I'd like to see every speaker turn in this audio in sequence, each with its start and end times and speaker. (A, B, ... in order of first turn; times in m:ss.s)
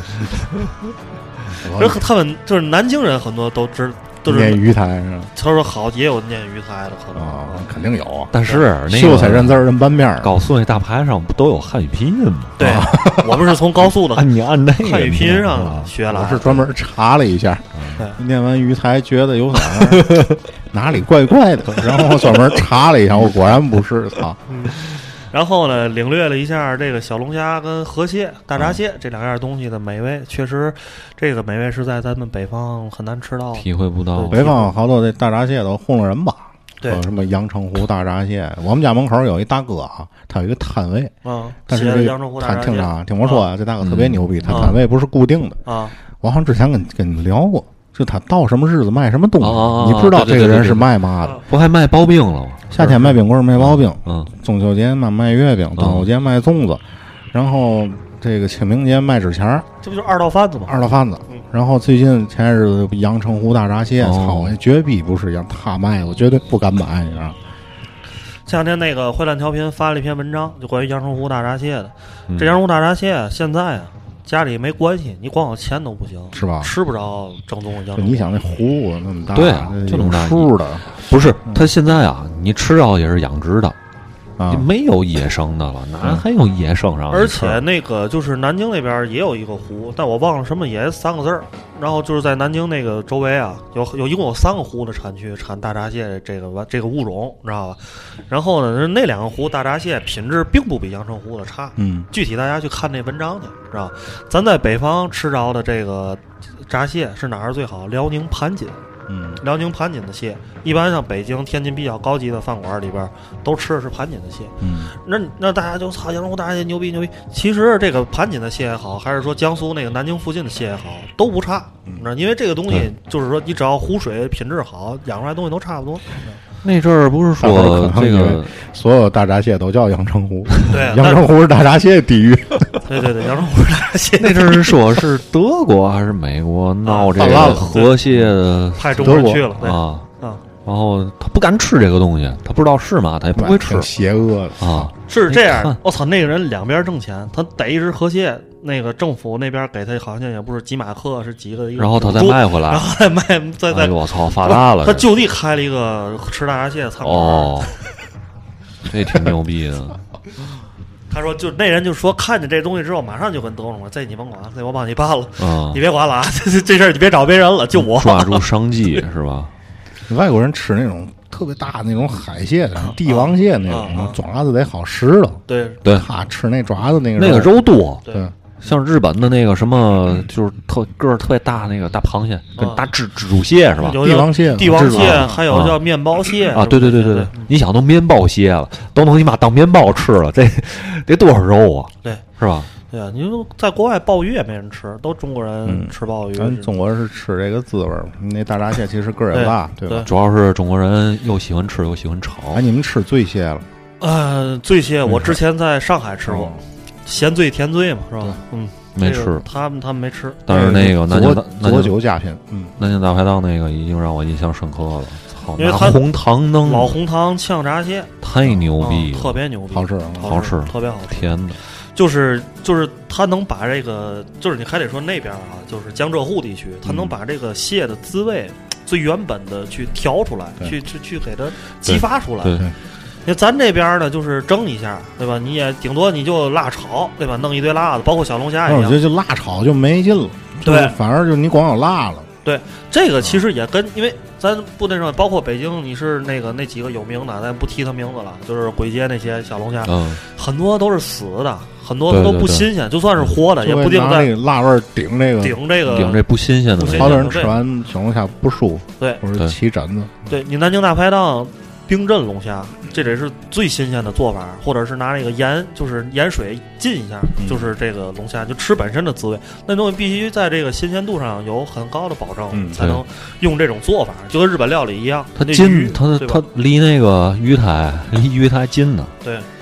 0:01.6-0:02.0 A
0:01.8-0:04.6 B
0:04.2-0:05.3 A
0:05.4-0:07.7 B
0:07.1-0:08.3 A
0:08.3-0:12.6 C
0:08.9-0:10.3 A
0:12.6-0:14.3 B
0:12.6-0:13.5 A
0:13.9-0:15.9 C
0:14.8-0:16.6 B
0:16.1-0:24.4 A
0:19.7-0:20.4 C
0:24.5-0:34.7 B
0:33.6-0:34.5 C
0:34.3-0:41.1 A
0:36.8-0:37.1 B
0:41.2-0:43.4 B
0:41.7-0:45.6 A
0:43.8-0:44.7 C
0:44.5-0:44.8 B
0:45.6-0:45.9 B
0:46.2-0:51.4 A
0:49.4-0:50.9 C
0:51.5-0:54.3 C
0:52.7-0:59.7 A
0:55.8-0:56.1 C
0:59.8-1:00.8 B
1:00.7-1:07.4 A
1:04.0-1:04.5 C
1:08.5-1:18.3 B
1:12.3-1:12.6 C
1:16.3-1:16.7 A
1:18.0-1:21.7 A
1:19.3-1:23.8 C
1:24.4-1:24.7 A
1:24.5-1:27.6 C
1:27.1-1:48.8 B
1:41.8-1:42.1 A
1:49.1-1:49.4 A
1:49.4-1:54.5 B
1:54.6-1:54.9 A
1:55.0-2:06.0 B
2:06.6-2:08.6 C
2:07.4-2:12.8 A
2:10.7-2:11.3 B
2:12.8-2:14.7 B
2:14.2-2:20.1 C
2:16.8-2:18.0 B
2:17.2-2:18.3 A
2:18.8-2:20.4 B
2:19.0-2:19.5 A
2:20.6-2:23.9 C
2:23.4-2:24.9 A
2:24.6-2:25.8 C
2:25.1-2:37.7 B
2:31.8-2:32.9 C
2:33.7-2:35.1 C
2:37.0-2:37.7 C
2:38.9-2:40.0 C
2:41.1-2:48.4 B
2:45.4-2:45.8 C
2:47.7-2:49.5 C
2:50.1-2:58.3 A
2:52.8-2:54.2 B
2:55.5-2:55.8 B
2:57.2-2:58.0 C
2:58.6-3:04.0 C
3:02.6-3:02.9 B
3:03.8-3:07.5 B
3:04.0-3:05.3 A
3:04.7-3:05.8 C
3:06.5-3:12.7 C
3:12.9-3:16.7 B
3:15.6-3:20.1 A
3:19.3-3:20.1 B
3:20.1-3:22.6 C
3:22.5-3:23.7 A
3:24.0-3:26.5 B
3:25.1-3:25.4 C
3:26.3-3:26.6 A
3:27.1-3:30.4 B
3:29.0-3:29.4 C
3:30.5-3:32.0 C
3:30.5-3:32.7 A
3:32.8-3:37.0 C
3:35.6-3:36.0 B
3:36.6-3:38.1 B
3:38.2-3:39.4 C
3:38.4-3:38.7 A
3:38.8-3:41.3 B
3:39.7-3:40.3 A
3:40.2-3:41.6 C
3:41.9-3:52.6 B
3:46.9-3:47.1 A
3:51.8-3:52.6 C
3:53.2-3:59.0 B
3:58.7-4:02.3 A
4:00.6-4:01.0 B
4:02.4-4:14.3 B
4:09.9-4:10.2 C
4:12.1-4:12.7 C
4:13.6-4:15.6 A
4:15.4-4:17.5 B
4:15.9-4:17.3 C
4:16.9-4:20.1 A
4:20.3-4:36.4 B
4:27.4-4:27.7 A
4:32.5-4:32.8 A
4:35.4-4:39.1 C